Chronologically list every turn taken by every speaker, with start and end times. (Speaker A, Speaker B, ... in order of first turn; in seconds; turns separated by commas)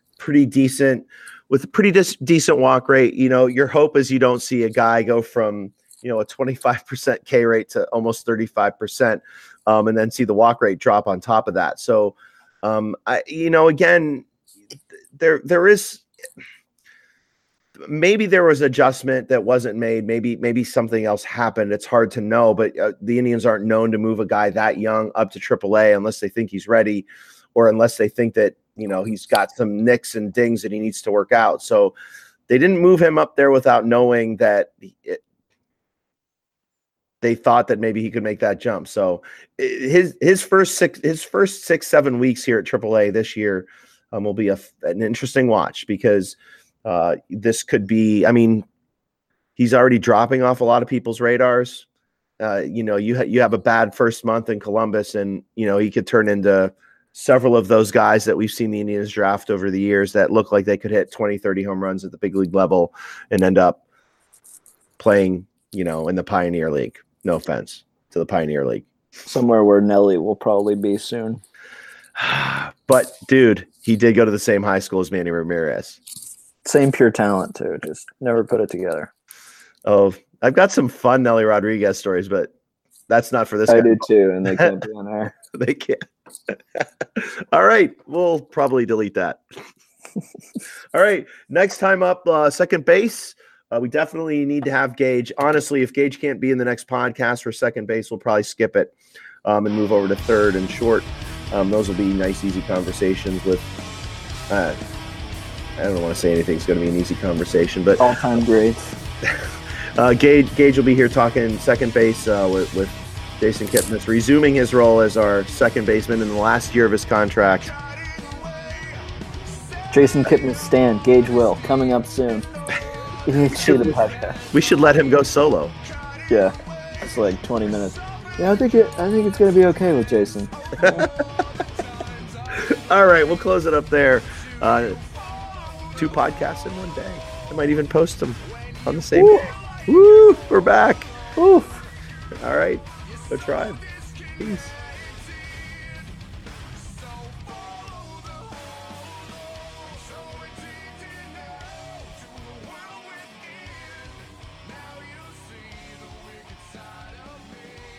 Speaker A: 0.2-14.3, Speaker A: 15.2-16.0, Speaker A: 17.8-31.9, Speaker A: 32.5-35.2, Speaker A: 37.2-48.7, Speaker A: 49.6-51.9, Speaker A: 52.4-63.8, Speaker A: 65.0-68.8, Speaker B: 69.3-71.4, Speaker A: 72.2-76.0, Speaker B: 76.7-79.1, Speaker A: 79.8-82.5, Speaker A: 83.1-84.7, Speaker B: 83.7-85.3, Speaker A: 85.5-89.4, Speaker A: 90.9-98.9, Speaker A: 99.4-103.7, Speaker A: 104.5-104.8, Speaker A: 105.8-108.0, Speaker B: 108.0-108.8, Speaker A: 110.0-117.7, Speaker B: 119.9-122.5, Speaker B: 123.3-124.4, Speaker A: 123.5-124.0, Speaker A: 124.5-125.8, Speaker B: 126.3-131.1, Speaker A: 132.5-135.0, Speaker A: 136.0-141.1, Speaker B: 139.2-139.5, Speaker B: 141.4-141.8, Speaker A: 142.4-143.8, Speaker A: 144.4-144.8